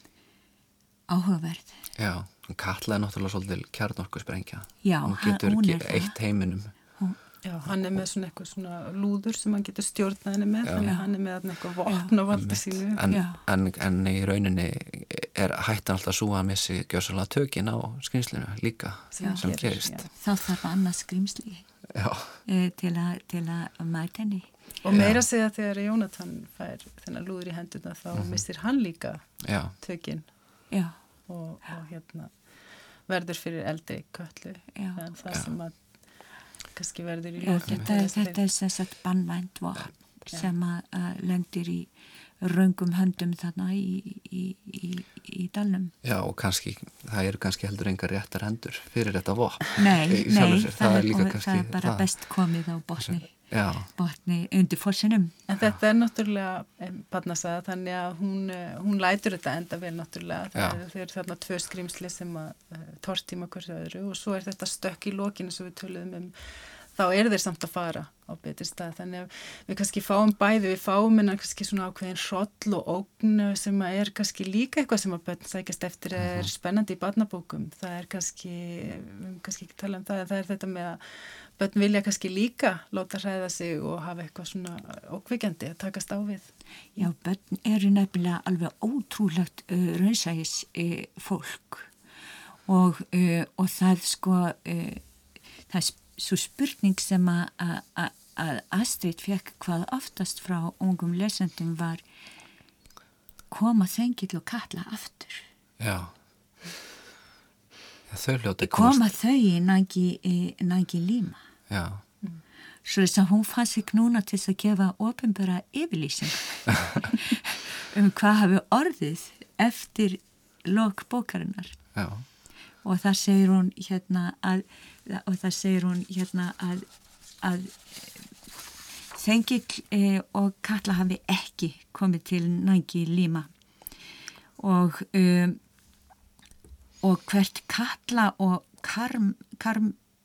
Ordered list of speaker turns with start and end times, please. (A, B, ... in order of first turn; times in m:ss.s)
0:01.1-0:01.8 A
0:02.0-0:06.7 B
0:04.8-0:06.2 A
0:07.4-0:13.0 C
0:10.6-0:10.9 B
0:10.8-0:11.1 A
0:11.9-0:12.1 A
0:12.3-0:20.1 B
0:13.1-0:13.4 A
0:19.1-0:20.1 C
0:19.2-0:19.5 A
0:20.1-0:21.7 A
0:21.9-0:22.4 B
0:22.4-0:24.5 A
0:24.8-0:30.3 C
0:24.9-0:25.2 B
0:28.1-0:28.4 B
0:29.4-0:29.7 B
0:30.7-0:31.0 A
0:31.3-0:32.6 C
0:33.1-0:35.8 C
0:34.8-0:35.0 A
0:36.7-0:38.4 C
0:37.4-0:45.9 A
0:46.0-0:52.3 B
0:49.8-0:55.3 A
0:53.0-0:53.9 B
0:55.5-1:06.3 C
1:06.9-1:27.0 C
1:16.2-1:16.5 B
1:27.0-1:31.9 A
1:32.6-1:35.0 A
1:35.7-1:42.0 A
1:43.5-1:45.4 A
1:45.8-1:46.1 B
1:48.1-1:49.1 B
1:48.6-1:51.4 A
1:51.7-1:52.0 B
1:52.8-2:01.8 A
2:01.9-2:02.2 B
2:02.8-2:06.8 A
2:07.4-2:08.2 A
2:09.1-2:13.5 A
2:14.6-2:15.6 A
2:17.0-2:20.0 A